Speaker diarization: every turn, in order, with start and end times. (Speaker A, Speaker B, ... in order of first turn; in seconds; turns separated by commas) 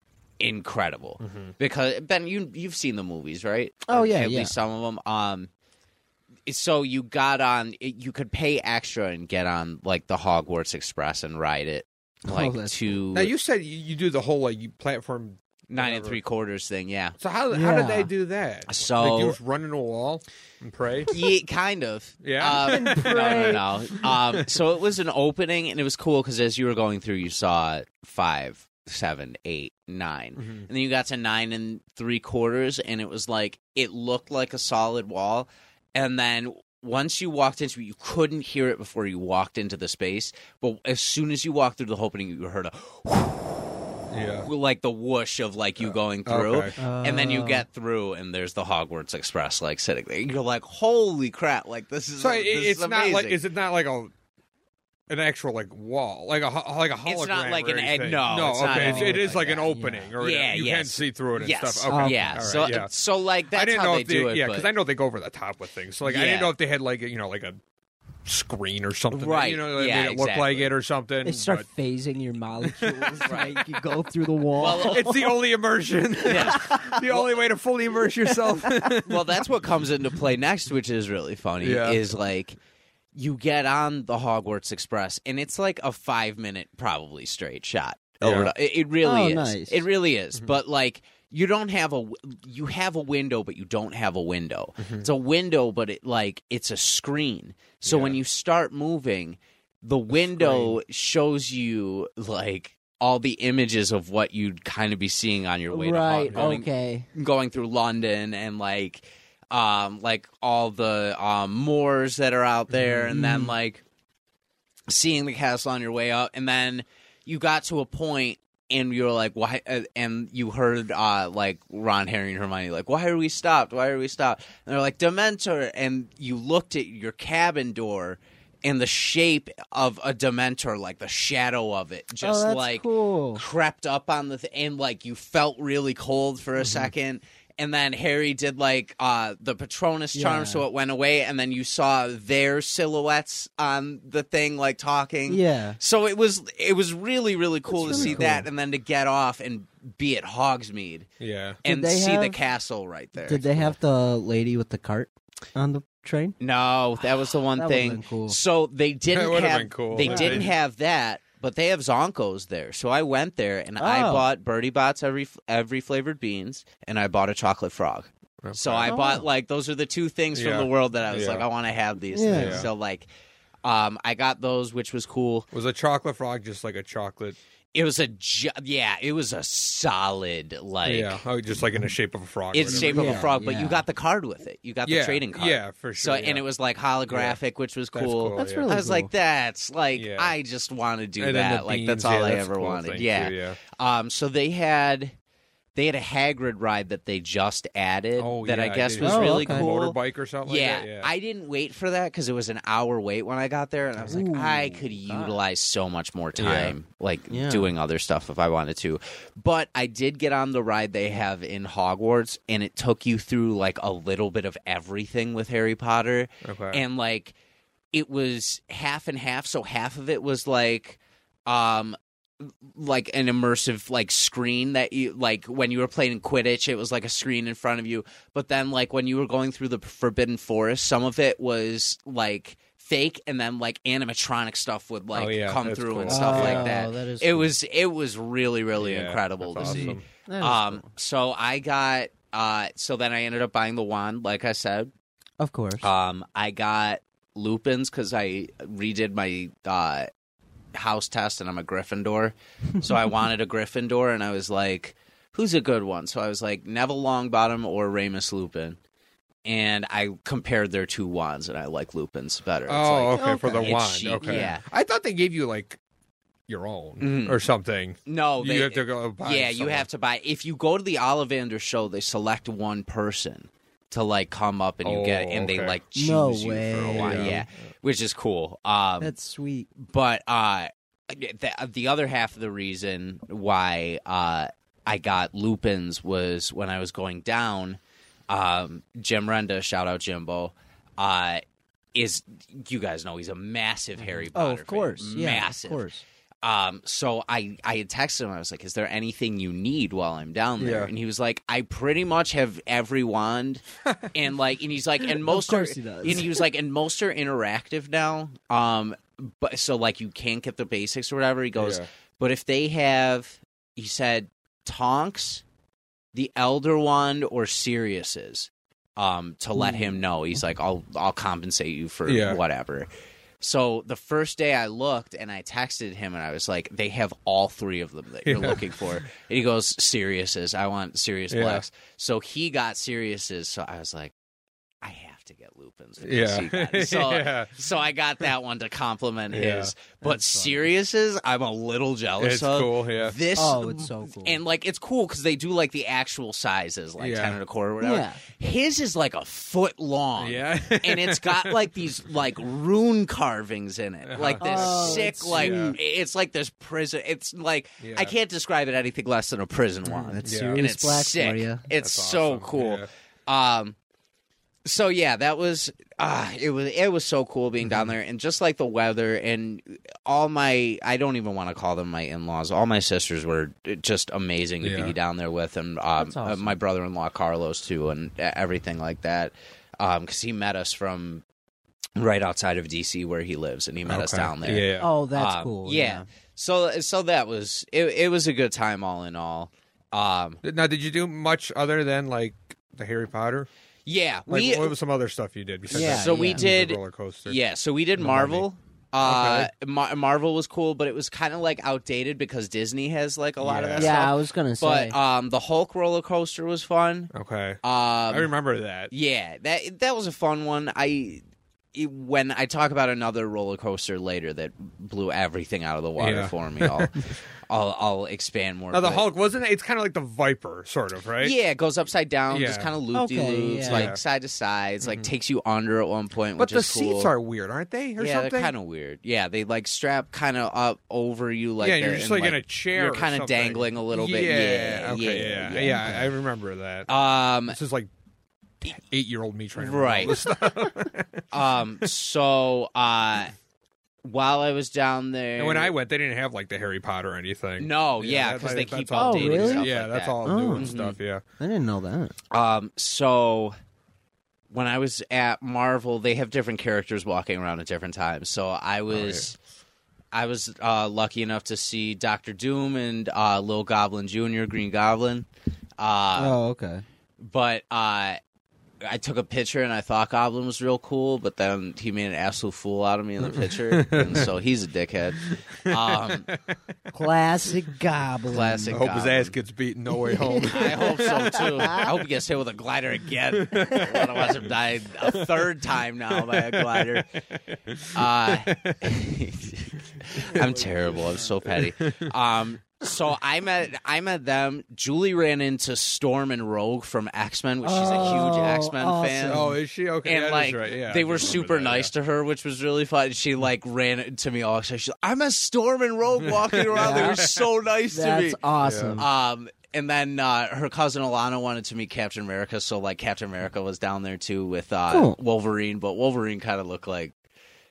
Speaker A: 0.4-5.5, Speaker B: 1.2-1.5, Speaker C: 3.9-4.5, Speaker A: 6.5-13.3, Speaker C: 12.3-12.9, Speaker B: 13.1-16.2, Speaker A: 15.7-17.2, Speaker B: 17.2-21.1, Speaker C: 17.5-18.1, Speaker A: 18.7-19.4, Speaker A: 21.1-43.7, Speaker B: 22.2-24.5, Speaker C: 22.5-23.6, Speaker B: 30.4-30.7, Speaker B: 44.1-44.5, Speaker A: 44.4-53.4, Speaker B: 45.8-46.8, Speaker C: 46.8-47.6, Speaker B: 52.2-54.1, Speaker B: 55.1-62.9, Speaker A: 57.1-64.7, Speaker C: 58.6-60.1, Speaker C: 61.9-62.7, Speaker B: 63.5-67.6, Speaker A: 66.0-66.5, Speaker B: 68.2-71.7, Speaker A: 69.1-70.7, Speaker C: 71.2-75.3, Speaker B: 72.6-73.8, Speaker A: 73.2-73.6, Speaker A: 74.6-75.1, Speaker B: 74.8-79.4, Speaker A: 76.2-77.2, Speaker C: 76.3-77.1, Speaker C: 78.4-78.9, Speaker A: 79.0-82.6, Speaker B: 81.6-82.0, Speaker A: 83.1-113.8, Speaker B: 88.2-88.5, Speaker C: 89.0-89.8, Speaker B: 94.8-95.1, Speaker B: 97.8-98.2, Speaker B: 100.3-100.8, Speaker C: 105.7-107.1, Speaker B: 106.3-106.6, Speaker B: 112.7-113.1, Speaker C: 113.1-113.5, Speaker A: 114.9-151.1, Speaker C: 132.2-133.4, Speaker B: 136.6-136.9, Speaker C: 140.1-140.7, Speaker C: 145.3-145.8, Speaker C: 147.7-148.5, Speaker B: 147.8-148.4, Speaker B: 151.2-151.6, Speaker C: 151.6-152.4, Speaker A: 151.6-153.8, Speaker C: 153.2-156.3, Speaker A: 156.4-173.1, Speaker C: 157.6-158.4, Speaker B: 159.1-160.5, Speaker C: 160.0-160.4, Speaker C: 163.8-164.3, Speaker B: 168.4-169.0, Speaker C: 168.9-169.2, Speaker B: 170.3-171.5, Speaker C: 172.1-172.7, Speaker B: 172.3-172.7, Speaker A: 173.6-175.5, Speaker B: 175.5-177.4, Speaker A: 177.7-181.2, Speaker B: 180.8-183.3, Speaker A: 182.5-195.2, Speaker C: 182.8-183.8, Speaker B: 184.9-186.5, Speaker B: 187.1-187.4, Speaker B: 187.9-188.7, Speaker C: 188.3-189.1, Speaker B: 190.0-190.3, Speaker B: 191.2-193.6, Speaker A: 195.8-217.4, Speaker B: 198.2-201.1, Speaker C: 199.0-199.7, Speaker C: 204.1-205.4, Speaker B: 206.4-206.8, Speaker C: 207.3-207.7, Speaker B: 216.4-216.8, Speaker A: 217.9-244.9, Speaker B: 235.1-236.7, Speaker C: 236.1-237.5, Speaker B: 238.8-240.0, Speaker C: 239.6-240.8, Speaker C: 245.4-245.9, Speaker A: 245.8-250.1, Speaker A: 250.7-258.8, Speaker A: 259.4-264.6, Speaker B: 262.7-265.8, Speaker C: 263.1-264.5, Speaker B: 266.5-269.9, Speaker A: 267.0-267.4, Speaker A: 268.1-279.1, Speaker B: 274.8-275.8, Speaker C: 275.9-277.4, Speaker B: 276.9-277.4, Speaker C: 279.0-279.7, Speaker A: 279.8-291.4, Speaker A: 291.9-295.9, Speaker C: 294.4-296.0, Speaker A: 296.4-315.4, Speaker B: 300.6-300.9, Speaker C: 305.2-306.4, Speaker B: 311.6-311.9, Speaker A: 316.1-334.1, Speaker C: 319.6-320.0, Speaker B: 322.1-322.4, Speaker B: 328.2-328.8, Speaker B: 331.3-331.6, Speaker A: 334.8-363.8, Speaker B: 336.0-337.6, Speaker B: 339.3-339.7, Speaker C: 340.0-340.7, Speaker B: 342.2-343.2, Speaker C: 343.4-344.4, Speaker B: 347.0-347.4, Speaker C: 347.8-348.2, Speaker B: 350.2-351.7, Speaker B: 354.1-355.8, Speaker C: 354.4-355.8, Speaker B: 357.8-358.1, Speaker C: 360.0-361.7, Speaker B: 360.2-360.6, Speaker B: 361.8-362.9, Speaker A: 364.6-381.2, Speaker B: 374.6-374.9, Speaker C: 376.0-376.6, Speaker A: 382.0-390.4, Speaker B: 383.9-384.9, Speaker C: 384.8-386.0, Speaker B: 390.4-393.5, Speaker A: 393.9-394.8, Speaker B: 394.3-397.4, Speaker C: 395.7-396.4, Speaker A: 395.7-408.3, Speaker B: 398.0-398.5, Speaker B: 399.0-399.5, Speaker B: 403.4-404.0, Speaker C: 403.8-404.9, Speaker B: 407.1-408.9, Speaker A: 408.9-411.2, Speaker A: 411.7-419.1, Speaker B: 416.0-417.1, Speaker B: 418.7-421.4, Speaker A: 421.2-427.1, Speaker B: 422.3-422.7, Speaker C: 422.9-423.9, Speaker B: 423.7-424.0, Speaker B: 424.8-425.1, Speaker B: 426.4-428.5, Speaker A: 428.0-436.1, Speaker B: 431.6-436.9, Speaker A: 436.9-437.6, Speaker B: 437.5-437.9, Speaker B: 438.6-441.2, Speaker A: 439.6-440.2, Speaker A: 441.3-443.3, Speaker A: 444.0-445.8, Speaker B: 445.4-451.2, Speaker A: 447.6-451.0, Speaker C: 448.9-449.7, Speaker C: 450.2-450.8, Speaker C: 451.4-452.1, Speaker A: 452.3-453.6, Speaker A: 454.5-459.4, Speaker B: 458.9-459.3, Speaker A: 460.1-465.3, Speaker A: 465.8-466.4, Speaker C: 466.2-466.9, Speaker A: 467.2-468.2, Speaker A: 468.8-476.3, Speaker B: 473.2-474.3, Speaker B: 475.2-476.6, Speaker C: 476.9-478.8, Speaker A: 478.3-479.4, Speaker B: 478.7-481.8, Speaker C: 480.1-481.9, Speaker A: 480.4-487.1, Speaker B: 483.3-484.5, Speaker B: 485.0-485.5, Speaker B: 486.1-489.1, Speaker A: 487.9-499.5, Speaker B: 490.0-490.5, Speaker C: 490.3-491.3, Speaker B: 491.4-492.1, Speaker C: 497.6-499.6, Speaker B: 497.8-498.5, Speaker B: 499.3-501.9, Speaker A: 500.0-508.4, Speaker B: 506.2-507.5, Speaker C: 506.7-507.3, Speaker C: 507.9-509.1, Speaker B: 508.6-509.0, Speaker A: 509.0-517.1, Speaker C: 514.9-515.2